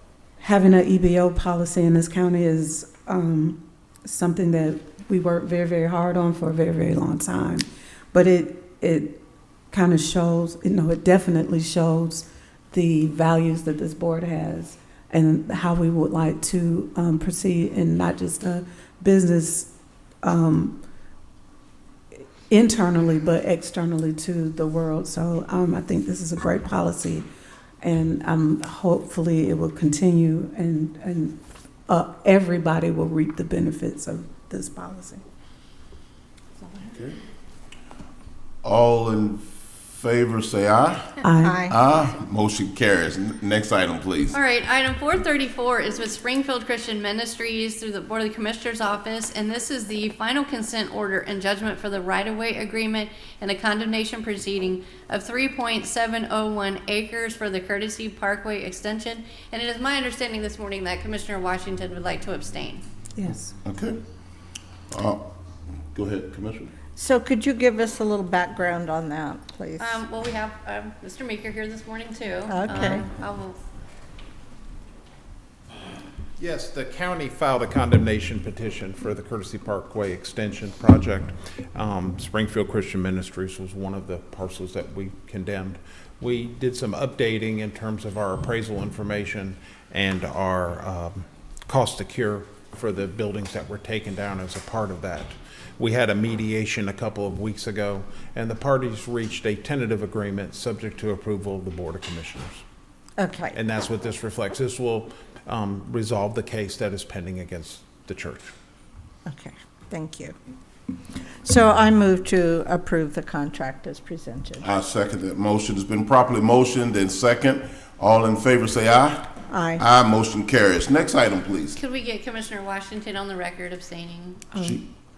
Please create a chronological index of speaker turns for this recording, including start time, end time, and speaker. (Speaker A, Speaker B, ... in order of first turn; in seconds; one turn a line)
Speaker A: 0.4-20.8
Speaker A: 22.5-27.3
Speaker A: 27.8-35.2
Speaker B: 36.9-37.2
Speaker B: 38.6-44.4
Speaker A: 41.2-41.6
Speaker C: 41.4-41.8
Speaker D: 44.3-62.8
Speaker A: 63.2-63.5
Speaker B: 63.6-64.0
Speaker B: 64.9-65.3
Speaker B: 65.9-66.7
Speaker C: 67.0-70.0
Speaker D: 69.8-73.6
Speaker C: 72.5-73.0
Speaker E: 76.4-102.6
Speaker C: 103.2-103.6
Speaker E: 103.5-108.5
Speaker C: 109.3-110.3
Speaker C: 111.4-114.7
Speaker B: 114.6-121.8
Speaker C: 119.5-119.8
Speaker D: 121.8-124.5
Speaker A: 124.5-124.8